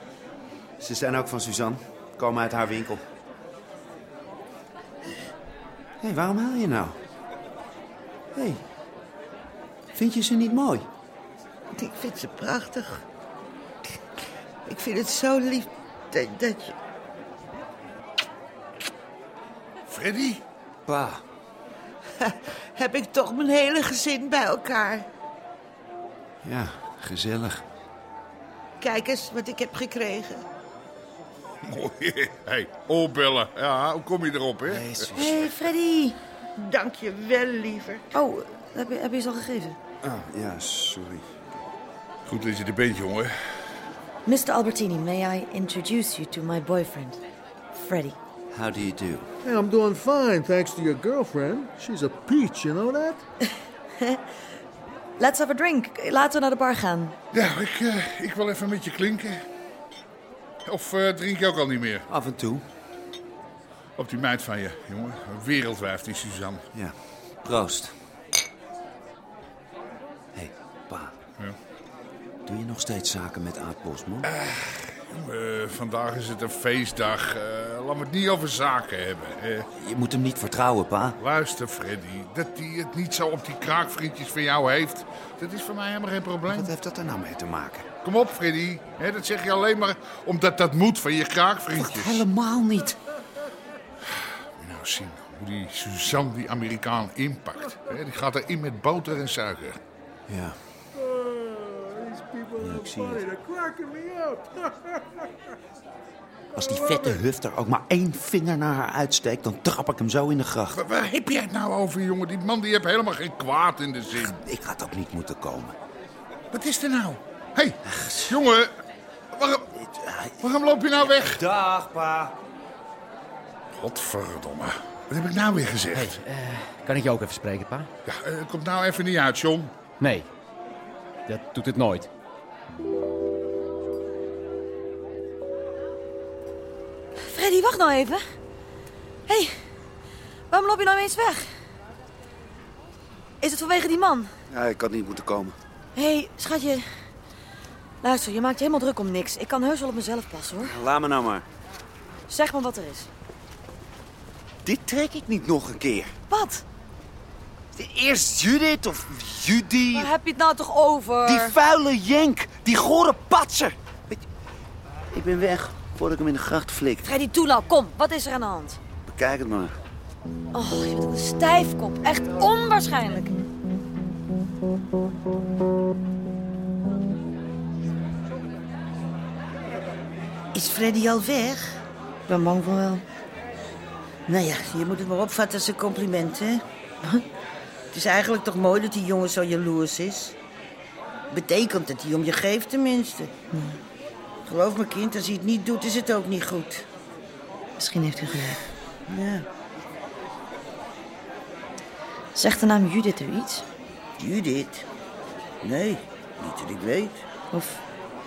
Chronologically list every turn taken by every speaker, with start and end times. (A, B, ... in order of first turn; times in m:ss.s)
0:00.8-0:03.0 A
0:06.0-0:07.0 A
0:08.3-0:08.6 A
0:09.9-0:10.9 A
0:11.7-0:13.0 B
0:14.6-0:16.7 B
0:19.9-0:20.4 C
0:20.9-0:21.2 A
0:22.2-0:25.1 B
0:26.4-0:27.6 A
0:28.8-0:30.4 B
0:31.6-0:35.1 C
0:34.7-0:35.4 A
0:35.1-0:35.8 B
0:35.2-0:36.2 D
0:36.6-0:38.1 B
0:38.1-0:39.8 D
0:40.0-0:41.4 A
0:42.2-0:43.3 C
0:44.2-0:47.2 D
0:47.7-0:48.2 D
0:48.5-0:49.3 A
0:49.4-0:53.2 E
0:55.2-0:57.2 D
0:57.3-0:59.4 C
1:00.6-1:02.0 C
1:02.1-1:02.6 A
1:04.0-1:06.6 C
1:06.7-1:07.9 A
1:10.3-1:11.1 A
1:12.4-1:14.2 A
1:14.2-1:19.7 C
1:19.8-1:21.2 A
1:21.2-1:26.7 C
1:26.5-1:27.9 A
1:28.0-1:32.3 C
1:31.7-1:33.0 A
1:34.6-1:39.8 C
1:40.3-1:40.6 A
1:40.9-1:45.3 E
1:42.6-1:43.2 A
1:46.5-1:50.7 A
1:46.6-1:47.2 E
1:50.7-1:54.4 C
1:54.2-1:55.8 A
1:56.5-1:58.7 C
1:57.9-1:58.3 A
1:59.3-1:59.7 C
1:59.8-2:00.4 A
2:00.4-2:01.4 C
2:01.0-2:02.4 A
2:03.7-2:06.2 C
2:05.9-2:07.9 F
2:08.1-2:09.7 C
2:10.0-2:10.3 F
2:11.3-2:12.1 F
2:17.2-2:18.2 D
2:20.5-2:21.5 D
2:23.4-2:24.3 D
2:24.5-2:25.6 A
2:25.9-2:26.8 D
2:28.0-2:30.8 D
2:30.7-2:31.4 A
2:32.3-2:33.1 D
2:34.6-2:36.1 A
2:36.3-2:36.6 D
2:37.7-2:40.1 A
2:39.9-2:41.6 D
2:41.2-2:44.2 A
2:45.1-2:47.0 A
2:47.0-2:48.8 D
2:49.0-2:49.7 A
2:50.5-2:53.3 D
3:00.5-3:01.8 B
3:02.3-3:03.0 D
3:04.3-3:06.6 B
3:07.9-3:10.4 B
3:11.3-3:13.3 B
3:13.5-3:13.8 D
3:14.4-3:16.8 B
3:17.8-3:18.6 D
3:19.1-3:19.4 B
3:22.3-3:23.6 D
3:24.2-3:24.9 B
3:25.6-3:27.2 B
3:27.5-3:27.8 D